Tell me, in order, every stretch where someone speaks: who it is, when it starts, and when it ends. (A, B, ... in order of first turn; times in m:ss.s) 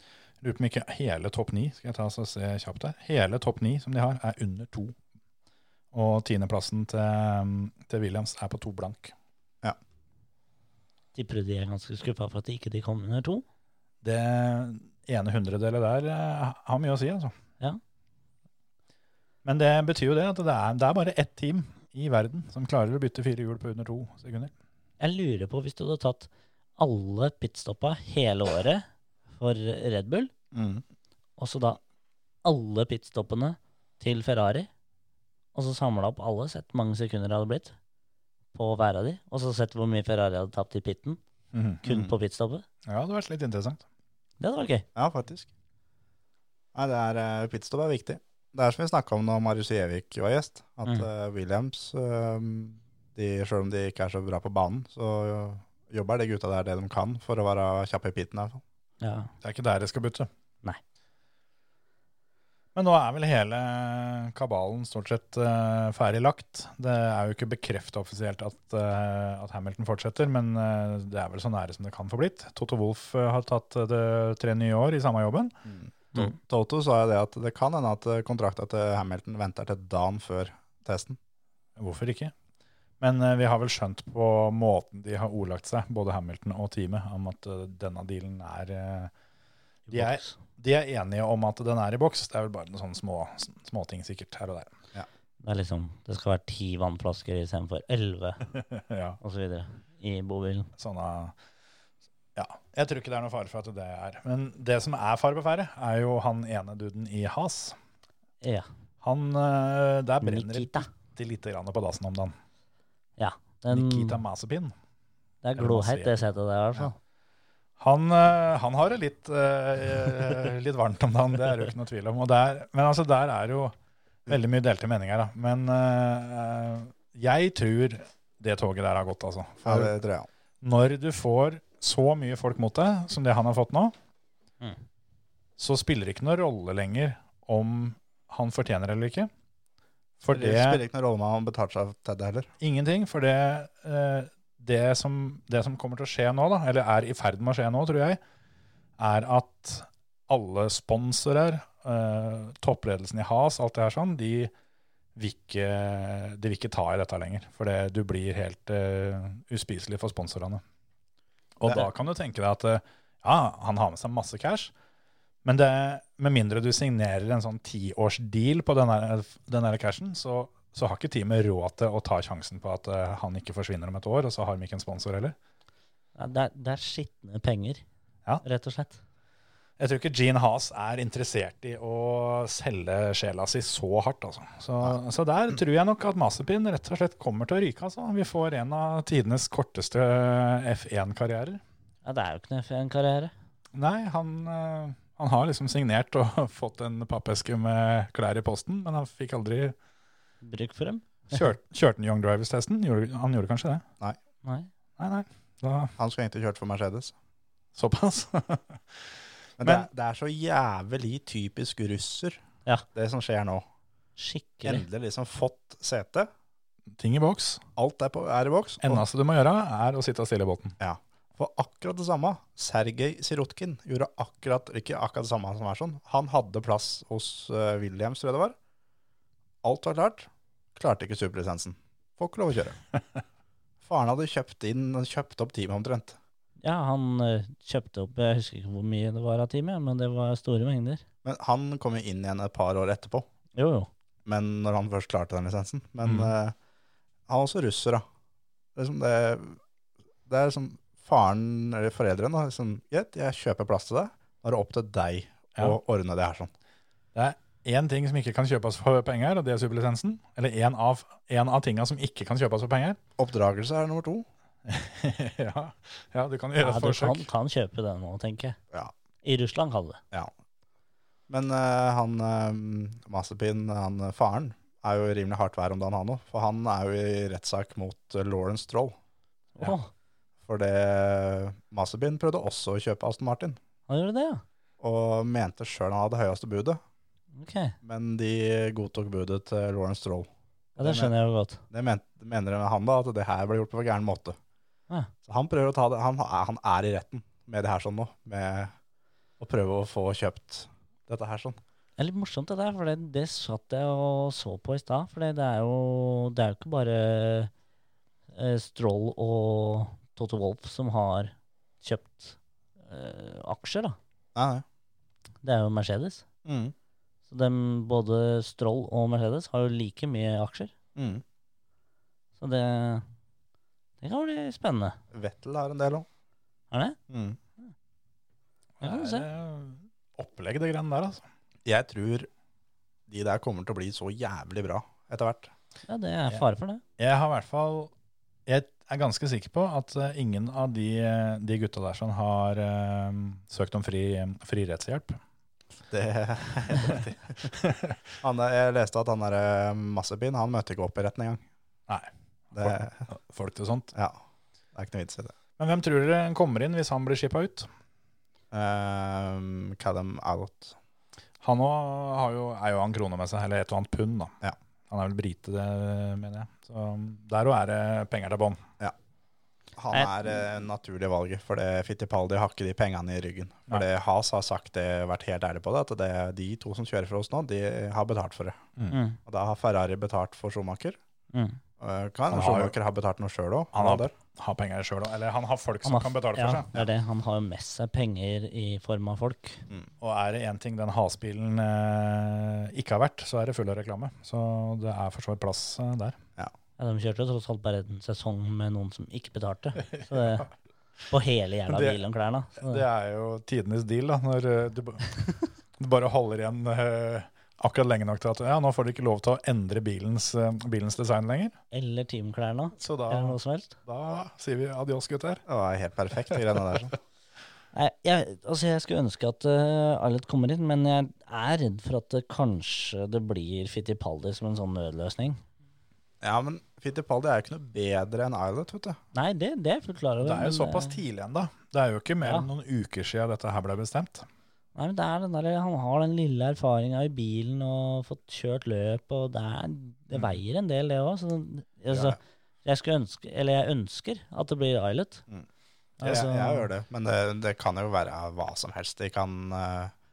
0:00.4-0:05.0 A
0:05.9-0:09.1 A
0:11.1-0:13.4 B
0:14.0-0:17.3 A
0:19.4-0:24.5 A
0:25.0-0:28.8 B
0:29.4-0:30.3 B
0:30.5-0:30.8 C
0:31.4-0:31.8 B
0:32.4-0:34.7 B
0:35.5-0:37.7 B
0:38.5-0:41.2 B
0:41.5-0:41.8 A
0:41.8-0:42.6 B
0:41.9-0:42.1 C
0:42.8-0:43.8 A
0:44.4-0:44.8 B
0:45.0-0:45.5 C
0:46.7-0:58.6 C
0:59.0-0:59.3 B
0:59.4-1:00.3 A
1:02.7-1:15.5 A
1:15.6-1:21.2 C
1:21.8-1:22.3 A
1:23.0-1:29.1 A
1:29.9-1:30.3 B
1:29.9-1:34.7 A
1:35.4-1:38.5 B
1:38.5-1:39.2 A
1:39.2-1:40.7 B
1:40.8-1:41.3 A
1:42.4-1:47.8 A
1:48.4-1:48.7 B
1:49.0-1:52.3 A
1:50.2-1:50.9 B
1:53.2-1:54.2 B
1:53.7-1:54.7 A
1:55.4-1:56.9 B
1:55.6-1:56.1 A
1:57.8-2:03.8 A
2:04.3-2:09.9 A
2:09.6-2:10.3 C
2:10.6-2:13.9 A
2:15.6-2:19.3 A
2:20.2-2:20.8 A
2:20.3-2:22.5 C
2:22.6-2:28.2 A
2:29.0-2:34.5 A
2:35.2-2:40.6 A
2:41.6-2:44.7 A
2:45.4-2:55.3 A
2:56.2-2:57.8 B
2:58.4-2:59.0 B
2:59.8-3:11.6 A
3:12.0-3:13.3 B
3:13.7-3:19.8 A
3:20.4-3:21.4 B
3:21.3-3:23.8 A
3:24.4-3:24.7 B
3:25.0-3:25.9 A
3:26.0-3:27.1 C
3:27.7-3:29.0 A
3:29.6-3:32.4 C
3:32.9-3:33.6 C
3:34.2-3:34.8 B
3:34.6-3:36.3 C
3:37.0-3:37.6 A
3:37.8-3:39.0 C
3:38.8-3:40.7 A
3:40.8-3:48.6 C
3:49.6-3:52.8 C
3:53.8-3:56.2 C
3:56.6-4:01.0 B
4:01.2-4:03.3 C
4:03.5-4:03.9 B
4:04.2-4:06.5 C
4:06.0-4:06.3 A
4:07.3-4:08.0 C
4:08.8-4:09.6 C
4:10.2-4:16.5 C
4:17.1-4:23.0 A
4:23.2-4:24.2 C
4:24.6-4:27.3 A
4:26.6-4:28.6 B
4:29.2-4:30.0 B
4:31.3-4:39.0 C
4:39.6-4:39.9 B
4:40.4-4:43.6 C
4:43.9-4:44.4 B
4:44.8-4:46.8 C
4:47.4-4:47.7 B
4:47.8-4:51.1 C
4:50.8-4:51.6 B
4:51.7-4:54.4 C
4:55.2-4:58.7 C
4:59.4-5:01.6 C
5:02.0-5:07.5 B
5:08.3-5:14.0 B
5:14.3-5:14.6 C
5:15.4-5:16.2 B
5:16.4-5:16.7 C
5:17.3-5:20.7 B
5:21.0-5:21.2 C
5:22.4-5:23.0 B
5:24.0-5:25.0 B
5:25.1-5:26.1 C
5:26.7-5:27.0 B
5:27.1-5:27.4 C
5:28.8-5:31.2 A
5:28.8-5:29.2 B
5:31.6-5:32.3 C
5:33.1-5:35.5 C
5:35.9-5:36.8 B
5:37.0-5:37.9 A
5:38.5-5:45.2 A
5:45.9-5:47.5 C
5:47.5-5:48.0 A
5:48.2-5:51.4 C
5:51.9-5:53.9 A
5:52.5-5:53.0 C
5:53.9-5:54.2 C
5:54.7-5:55.3 C
5:55.6-5:57.7 A
5:58.5-6:00.8 C
6:01.4-6:04.3 A
6:04.9-6:08.6 A
6:09.8-6:18.6 C
6:09.9-6:10.2 B
6:18.9-6:19.2 B
6:19.2-6:21.0 C
6:21.3-6:21.6 B
6:21.8-6:24.1 C
6:22.3-6:22.7 A
6:23.7-6:26.7 A
6:25.8-6:29.6 B
6:30.0-6:36.2 A
6:36.8-6:40.5 B
6:39.9-6:40.4 A
6:41.1-6:42.8 B
6:41.7-6:42.0 A
6:42.6-6:45.1 A
6:45.8-6:51.6 A
6:51.7-6:53.7 B
6:52.8-6:55.4 A
6:55.4-6:57.0 C
6:57.7-7:05.4 B
7:06.2-7:09.0 C
7:09.1-7:11.0 B
7:10.2-7:14.2 A
7:14.7-7:25.2 B
7:21.9-7:22.2 C
7:26.0-7:26.7 B
7:26.0-7:29.9 C